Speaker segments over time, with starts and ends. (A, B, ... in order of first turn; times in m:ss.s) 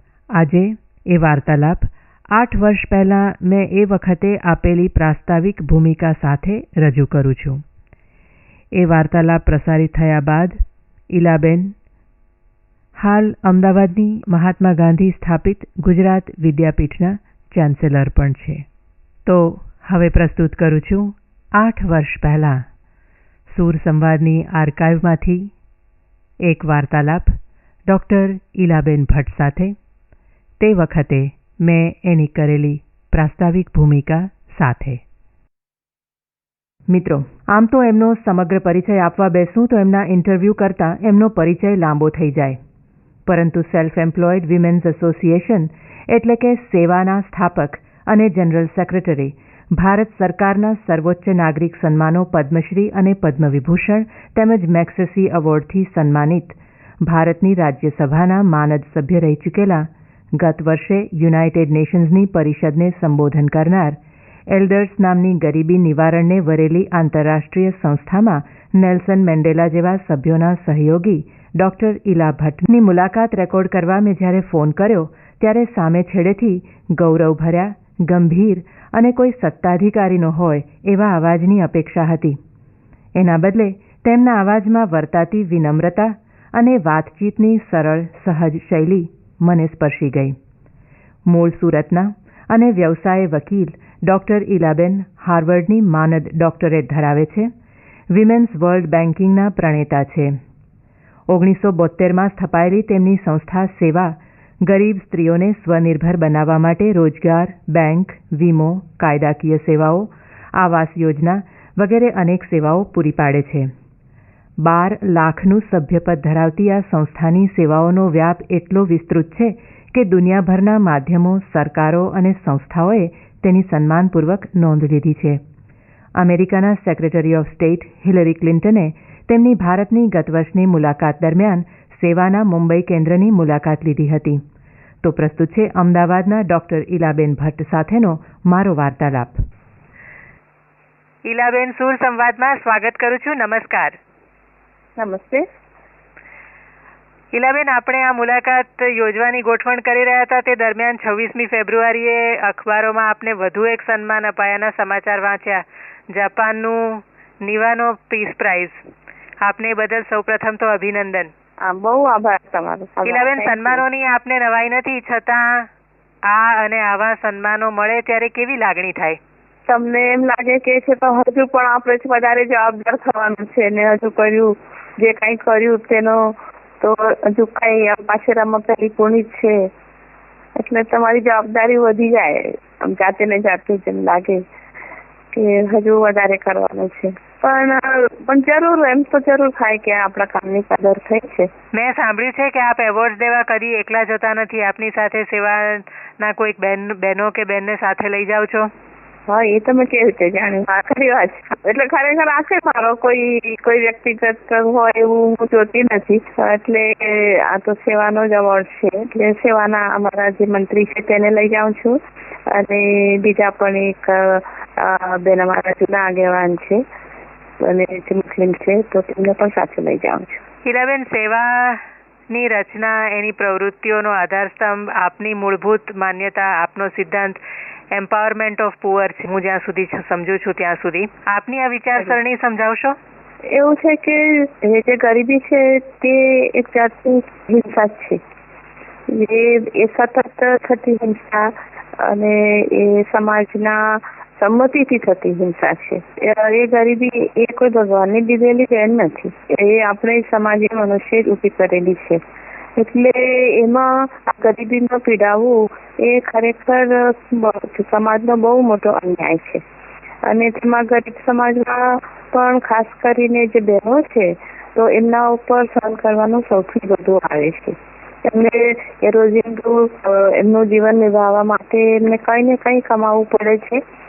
0:00.4-0:07.6 A
0:08.8-0:11.7 A
0:13.0-0:18.7 A
0:19.3-0:22.6 A
0:23.5-0:25.5 A
0:26.4-0:29.8 A
0:30.6-0:35.0 A
0:36.9-0:42.6 A
0:43.3-1:04.0 A
1:04.5-1:22.4 A
1:23.2-1:30.4 A
1:31.3-1:37.5 A
1:38.1-1:40.4 A
1:41.3-1:53.7 A
1:54.6-2:05.4 A
2:06.2-2:14.4 A
2:15.0-2:19.4 A
2:21.2-2:24.0 B
2:25.0-2:25.5 C
2:27.3-2:38.8 B
2:39.4-2:41.3 B
2:41.6-2:43.8 C
2:43.0-2:45.7 B
2:46.2-2:49.2 B
2:49.7-2:59.7 C
3:00.6-3:04.4 C
3:05.3-3:11.5 C
3:11.7-3:18.7 B
3:19.3-3:32.0 C
3:32.5-3:36.8 C
3:37.6-3:40.4 C
3:40.6-3:47.4 B
3:47.9-3:53.0 B
3:53.5-3:58.2 C
3:59.1-4:12.2 C
4:12.8-4:19.6 C
4:20.2-4:33.8 C